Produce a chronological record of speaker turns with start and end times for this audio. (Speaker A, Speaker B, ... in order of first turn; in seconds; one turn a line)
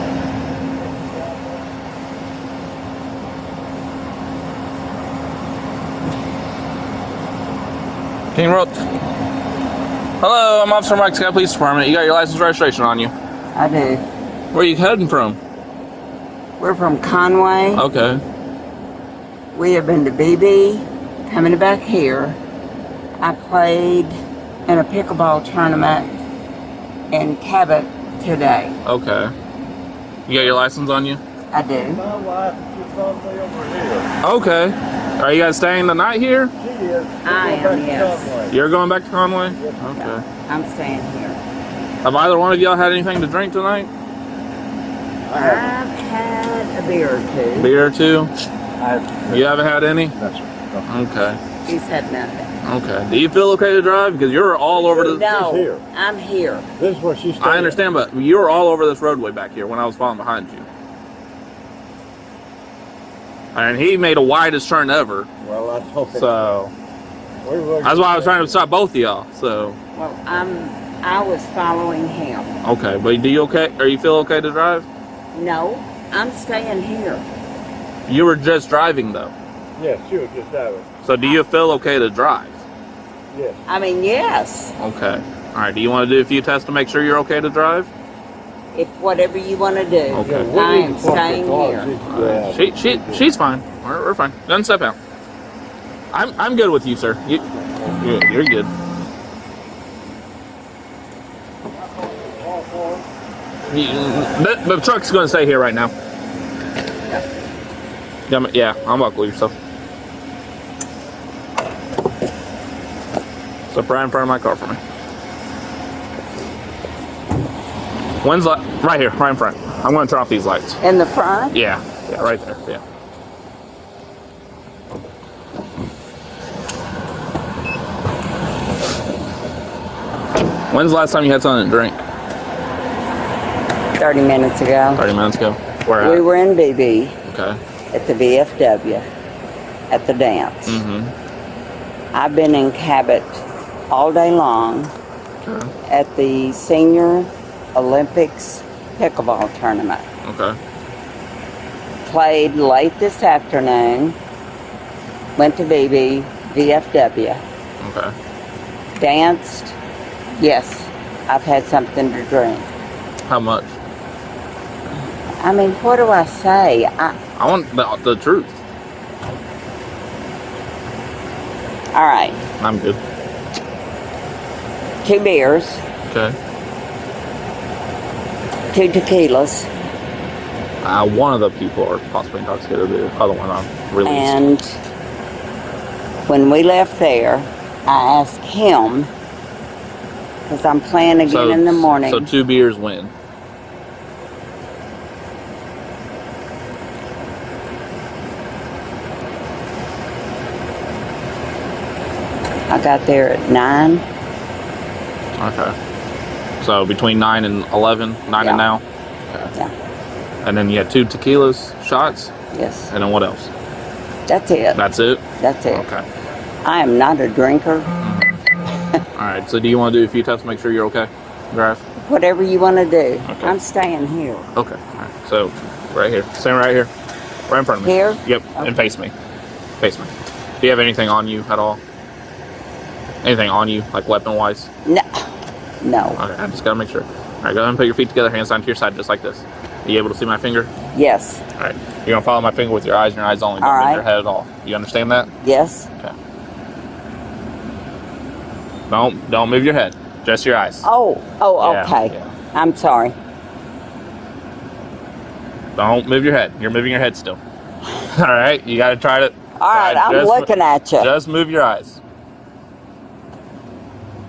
Speaker A: 8.3-8.8
Speaker A: 10.2-13.1
Speaker B: 13.6-14.0
Speaker A: 14.5-15.4
Speaker B: 16.6-17.8
Speaker A: 17.7-18.2
Speaker B: 19.5-22.4
Speaker B: 23.2-24.1
Speaker B: 24.7-26.2
Speaker B: 27.1-28.8
Speaker A: 28.8-29.3
Speaker A: 30.3-31.2
Speaker B: 31.5-32.0
Speaker C: 31.8-34.1
Speaker A: 34.2-36.5
Speaker C: 36.6-38.6
Speaker B: 37.2-38.3
Speaker A: 38.5-40.2
Speaker C: 39.5-39.9
Speaker B: 40.0-41.4
Speaker A: 42.0-43.9
Speaker C: 45.3-45.7
Speaker B: 45.3-47.8
Speaker A: 47.5-48.3
Speaker C: 48.8-49.5
Speaker A: 49.3-50.2
Speaker C: 50.1-50.9
Speaker A: 50.9-51.4
Speaker B: 51.6-52.5
Speaker A: 52.6-55.4
Speaker C: 54.8-55.8
Speaker B: 55.0-56.7
Speaker C: 56.8-57.8
Speaker A: 57.4-60.6
Speaker A: 63.5-65.3
Speaker C: 65.4-66.5
Speaker A: 66.1-66.7
Speaker C: 67.4-68.5
Speaker A: 67.8-69.8
Speaker B: 69.9-72.5
Speaker A: 72.6-74.9
Speaker B: 75.3-77.2
Speaker A: 78.1-79.3
Speaker C: 79.8-80.9
Speaker A: 81.0-82.6
Speaker C: 83.3-83.6
Speaker B: 83.7-84.8
Speaker A: 84.8-87.9
Speaker B: 88.7-91.9
Speaker A: 90.1-90.5
Speaker C: 90.2-93.2
Speaker A: 92.1-95.0
Speaker A: 96.1-98.7
Speaker C: 102.0-103.1
Speaker A: 103.7-105.9
Speaker A: 108.3-109.5
Speaker A: 113.7-114.8
Speaker A: 118.2-120.8
Speaker B: 120.8-121.6
Speaker A: 121.5-122.8
Speaker A: 130.7-132.0
Speaker B: 134.0-135.0
Speaker A: 135.0-136.2
Speaker B: 136.0-137.2
Speaker A: 137.2-137.6
Speaker B: 137.9-139.1
Speaker B: 139.9-140.8
Speaker A: 140.7-141.1
Speaker B: 142.1-144.9
Speaker A: 145.4-145.7
Speaker B: 145.9-150.1
Speaker A: 150.2-150.6
Speaker B: 152.1-154.2
Speaker B: 155.4-157.4
Speaker A: 157.8-158.1
Speaker B: 158.9-159.8
Speaker B: 160.4-162.7
Speaker A: 163.3-163.8
Speaker B: 165.4-167.2
Speaker A: 167.4-168.6
Speaker B: 171.9-172.4
Speaker A: 172.6-173.0
Speaker B: 175.0-175.8
Speaker A: 176.1-176.4
Speaker B: 178.7-179.7
Speaker A: 180.8-184.4
Speaker B: 184.1-184.8
Speaker B: 186.2-189.1
Speaker B: 190.5-192.3
Speaker A: 191.2-193.1
Speaker B: 202.7-204.0
Speaker A: 205.4-205.8
Speaker A: 206.6-209.5
Speaker B: 208.4-208.7
Speaker A: 210.4-212.3
Speaker B: 212.5-212.9
Speaker A: 212.9-213.5
Speaker B: 214.3-214.8
Speaker A: 214.8-216.0
Speaker B: 215.4-215.8
Speaker B: 216.6-217.9
Speaker A: 218.0-218.4
Speaker A: 219.2-221.8
Speaker B: 222.0-224.5
Speaker A: 223.3-223.6
Speaker A: 224.6-226.9
Speaker A: 227.5-229.1
Speaker B: 227.8-228.8
Speaker A: 229.8-231.8
Speaker A: 233.2-234.7
Speaker B: 234.8-235.2
Speaker B: 235.8-236.2
Speaker A: 236.2-240.7
Speaker B: 240.9-241.4
Speaker A: 241.6-245.3
Speaker B: 243.6-244.0
Speaker B: 245.4-245.9
Speaker A: 248.9-250.9
Speaker B: 250.8-253.2
Speaker A: 251.6-252.3
Speaker A: 255.8-257.4
Speaker A: 258.0-262.0
Speaker B: 259.6-261.1